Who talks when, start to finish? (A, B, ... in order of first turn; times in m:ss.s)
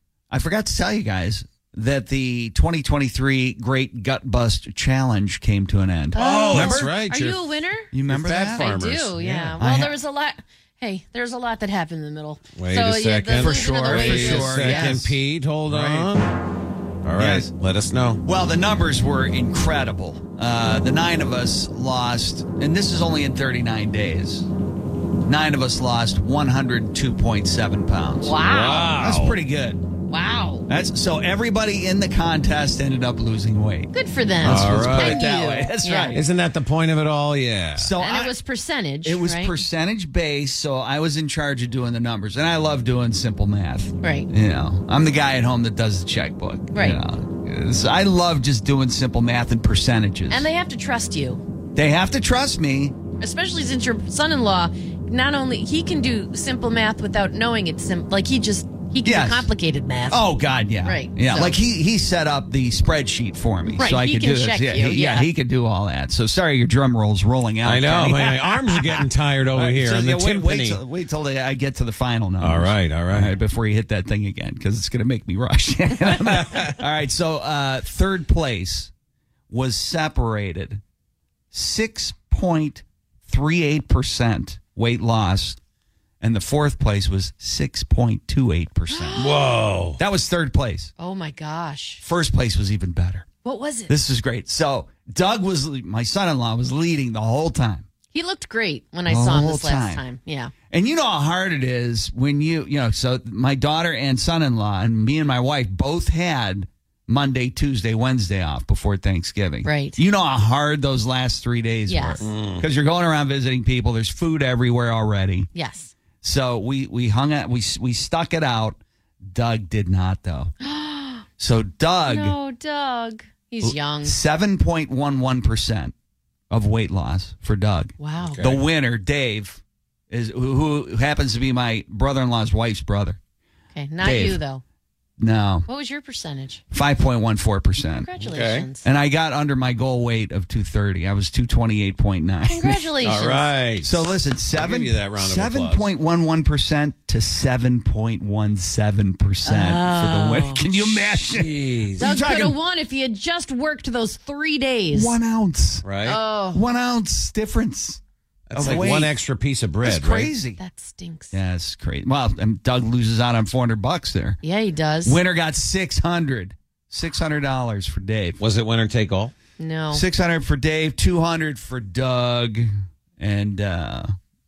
0:00.3-0:06.9 A
0:06.1-0:07.9 B
0:06.2-0:07.4 C
0:07.9-0:08.7 A
0:08.1-0:09.6 C
0:08.5-0:15.0 B
0:09.6-0:10.0 A
0:12.6-0:16.3 C
0:13.3-0:15.2 A
0:15.7-0:16.1 A
0:17.0-0:18.2 C
0:17.2-0:17.5 A
0:18.2-0:24.5 A
0:25.2-0:29.8 A
0:28.2-0:28.9 B
0:28.4-0:29.4 C
0:30.1-0:30.7 B
0:30.7-0:36.2 A
0:33.9-0:36.2 B
0:34.4-0:35.2 C
0:36.1-0:37.9 C
0:37.8-0:38.4 A
0:38.0-0:39.6 B
0:39.0-0:50.5 A
0:44.0-0:44.3 B
0:46.7-0:47.0 B
0:50.3-0:51.4 B
0:51.8-0:53.0 A
0:53.2-1:00.3 B
0:59.0-0:59.5 A
1:00.1-1:18.9 A
1:00.8-1:01.6 B
1:03.8-1:05.3 B
1:07.6-1:10.8 C
1:12.4-1:13.4 C
1:16.4-1:16.7 C
1:19.5-1:20.8 A
1:21.5-1:25.6 A
1:26.2-1:29.3 A
1:28.9-1:29.4 B
1:29.2-1:30.0 C
1:30.0-1:30.9 A
1:31.0-1:32.0 B
1:32.0-1:33.3 A
1:33.4-1:33.9 B
1:33.9-1:37.9 A
1:38.1-1:40.5 B
1:39.1-1:40.0 A
1:40.7-1:55.5 A
1:49.6-1:50.0 B
1:51.9-1:52.2 B
1:52.2-1:52.7 C
1:55.5-1:55.9 B
1:56.2-2:00.5 A
2:00.6-2:01.3 B
2:01.4-2:02.4 A
2:02.1-2:04.2 B
2:03.6-2:05.9 A
2:06.5-2:13.2 A
2:08.0-2:08.5 B
2:08.3-2:08.6 C
2:13.7-2:14.6 B
2:14.0-2:14.4 A
2:15.2-2:15.7 A
2:15.7-2:16.6 B
2:16.7-2:18.1 A
2:17.9-2:18.8 B
2:18.2-2:18.7 C
2:18.8-2:22.9 A
2:22.4-2:23.5 B
2:23.0-2:25.9 C
2:23.8-2:32.6 A
2:29.4-2:30.6 B
2:30.9-2:32.2 C
2:32.0-2:35.2 B
2:34.9-2:35.9 A
2:35.8-2:36.2 C
2:36.0-2:36.6 B
2:36.5-2:38.0 A
2:38.5-2:40.3 C
2:38.5-2:39.2 A
2:39.8-2:40.6 A
2:40.6-2:41.4 B
2:41.3-2:44.4 A
2:44.4-2:45.2 B
2:45.0-2:48.4 A
2:48.4-2:49.3 C
2:49.6-2:50.0 B
2:49.9-2:54.1 A